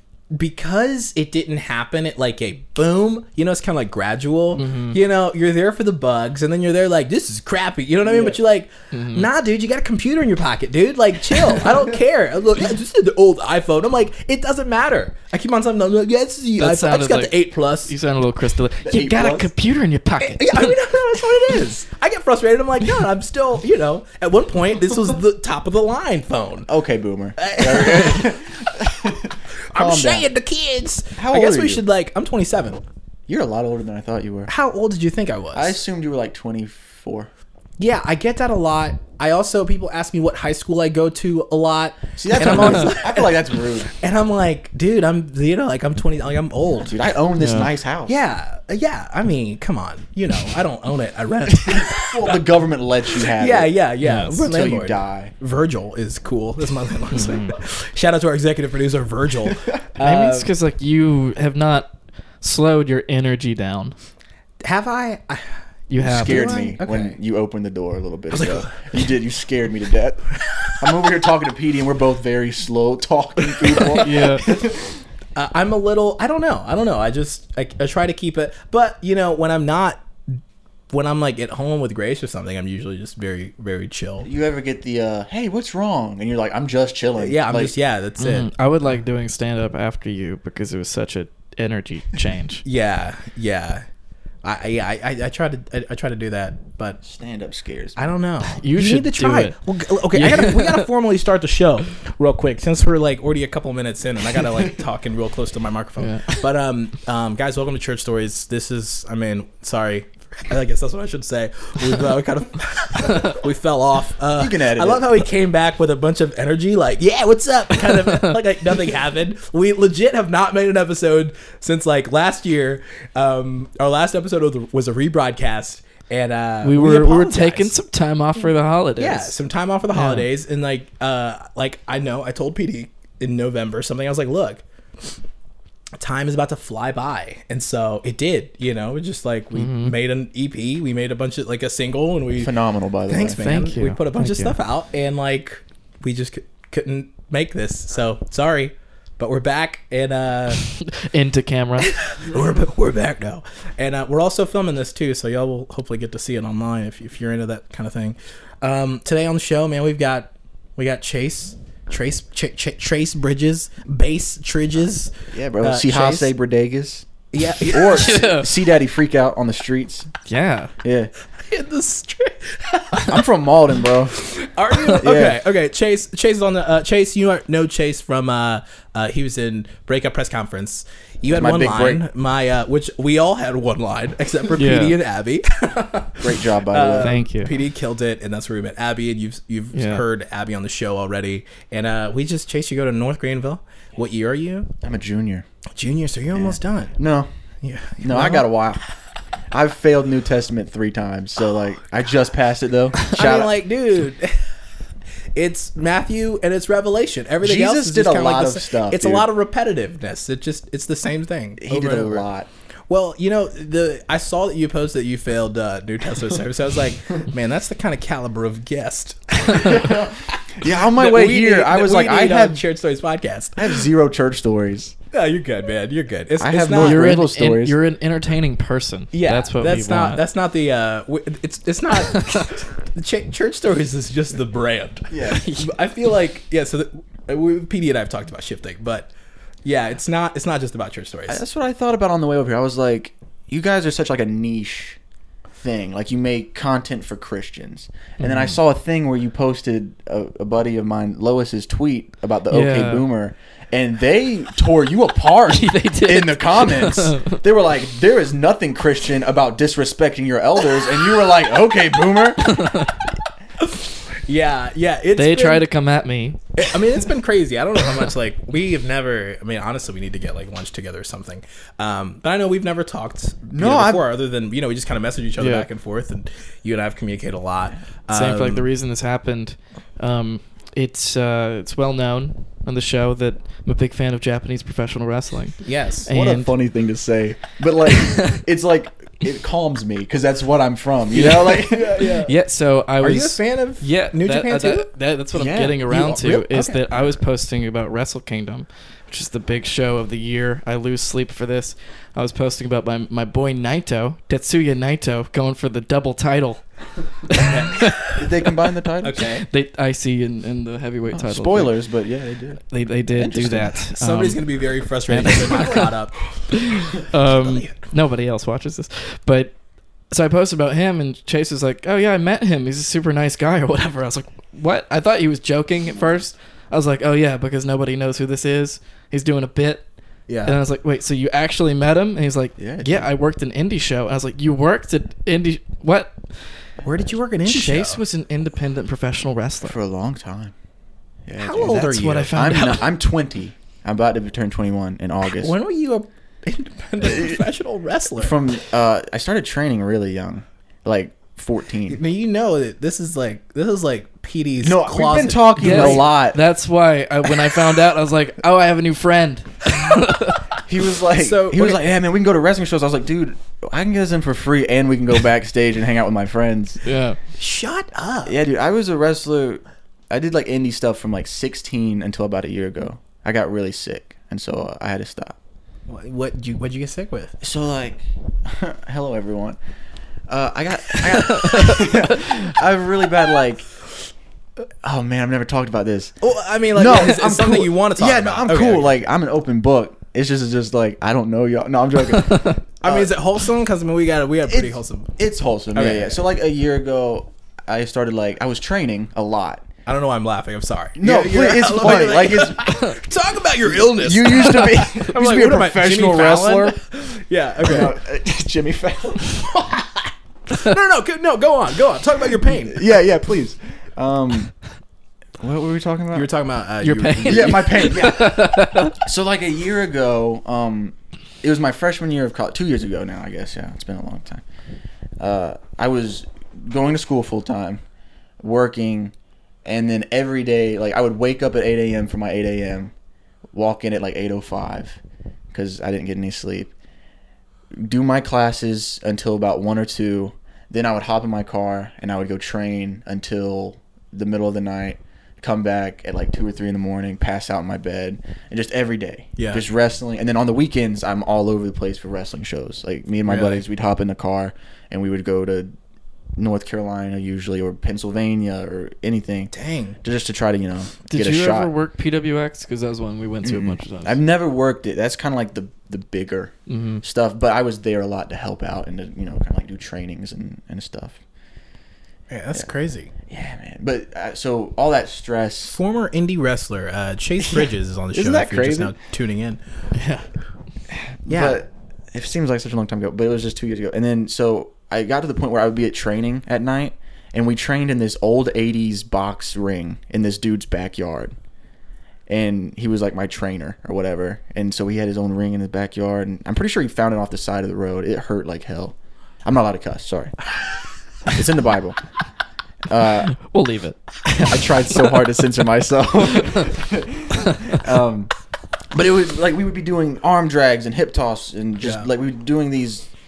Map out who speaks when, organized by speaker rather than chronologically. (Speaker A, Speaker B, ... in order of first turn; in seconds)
Speaker A: 0.3-17.9, 20.2-26.7, 27.4-28.4, 29.7-32.8, 34.5-35.8, 37.8-47.0, 48.1-52.4, 53.1-60.5, 64.6-67.2, 68.3-69.0, 70.4-70.9, 75.4-80.4, 80.9-84.3, 87.2-88.5, 92.6-93.8, 94.4-97.0, 98.0-127.7, 129.0-134.6, 136.0-142.5, 143.1-150.6, 151.8-166.3, 167.3-168.1, 171.4-173.2, 174.1-194.7, 195.8-197.0, 197.6-198.5, 203.1-204.4, 205.3-212.3, 212.9-223.8, 225.1-227.2, 229.1-239.1, 239.7-241.4, 263.6-265.6, 266.6-278.6, 285.6-286.1, 291.1-292.3, 293.0-294.9, 295.9-296.8, 307.4-308.0, 309.0-309.5, 314.0-316.2, 317.2-317.8, 336.8-338.0, 341.4-342.5, 345.3-348.4, 351.9-356.1, 361.2-361.8, 367.4-368.4, 375.9-377.4, 386.2-388.9, 392.8-395.1, 395.8-396.2, 399.9-407.9, 409.6-409.8, 410.5-412.8, 416.1-417.9, 449.4-449.6, 453.3-453.6, 459.5-460.0, 472.3-473.1, 475.7-479.6, 481.3-481.6, 511.8-512.1
Speaker B: 4.5-5.0, 8.9-9.3, 16.6-20.7, 42.4-42.9, 47.4-47.7, 54.0-54.4, 57.2-57.5, 60.0-63.9, 65.9-66.6, 73.8-74.5, 88.2-92.7, 98.5-99.6, 100.1-100.9, 106.0-106.4, 118.0-118.4, 126.6-129.4, 129.9-130.3, 139.5-140.0, 143.4-144.6, 150.6-152.0, 167.9-168.5, 170.3-170.7, 184.6-185.0, 187.0-187.5, 189.7-190.0, 226.7-230.2, 232.1-232.5, 235.3-235.7, 248.2-248.5, 252.5-253.1, 255.5-257.4, 262.4-263.0, 265.2-266.4, 275.4-275.7, 278.1-286.5, 291.5-306.6, 307.2-308.6, 309.5-311.8, 312.7-314.4, 315.1-319.6, 320.1-329.9, 330.4-336.4, 337.4-339.8, 341.6-342.9, 355.6-360.5, 366.9-367.2, 381.1-382.3, 392.1-392.6, 416.8-419.0, 461.1-464.2, 466.7-467.0, 479.9-480.3, 503.3-505.3, 506.4-506.6, 507.4-507.9
Speaker C: 8.0-8.4, 18.8-19.5, 26.7-30.3, 31.2-31.8, 33.3-34.5, 35.5-37.3, 42.2-43.9, 46.8-48.2, 51.5-53.7, 54.4-55.3, 66.0-75.0, 84.2-87.7, 97.0-98.0, 114.4-115.2, 142.4-143.4, 165.3-167.1, 167.6-170.1, 170.8-171.1, 173.1-174.2, 174.9-175.4, 181.3-182.0, 186.2-187.2, 194.8-195.4, 196.3-197.3, 198.0-198.8, 199.5-203.5, 207.4-209.3, 211.6-212.5, 219.5-222.6, 223.6-224.9, 226.4-227.8, 235.1-235.5, 241.3-245.0, 245.6-262.8, 273.5-274.0, 286.1-292.2, 295.3-297.1, 308.1-309.2, 311.1-313.8, 330.3-330.5, 332.6-333.1, 339.6-340.5, 341.3-345.5, 347.0-347.4, 348.2-352.0, 354.6-356.4, 360.7-366.8, 368.2-375.4, 377.4-379.6, 380.3-383.7, 384.8-386.2, 386.7-393.1, 394.5-399.6, 401.0-402.9, 403.6-406.8, 407.6-409.6, 412.4-414.5, 415.4-416.3, 417.2-424.4, 425.2-427.8, 428.4-429.1, 429.6-432.9, 433.5-435.0, 435.5-436.7, 437.8-455.7, 456.4-459.5, 460.0-461.7, 463.4-471.2, 473.3-475.8, 477.4-478.9, 481.2-491.3, 492.3-500.4, 501.3-502.0, 502.9-503.3, 504.3-508.3, 508.9-513.1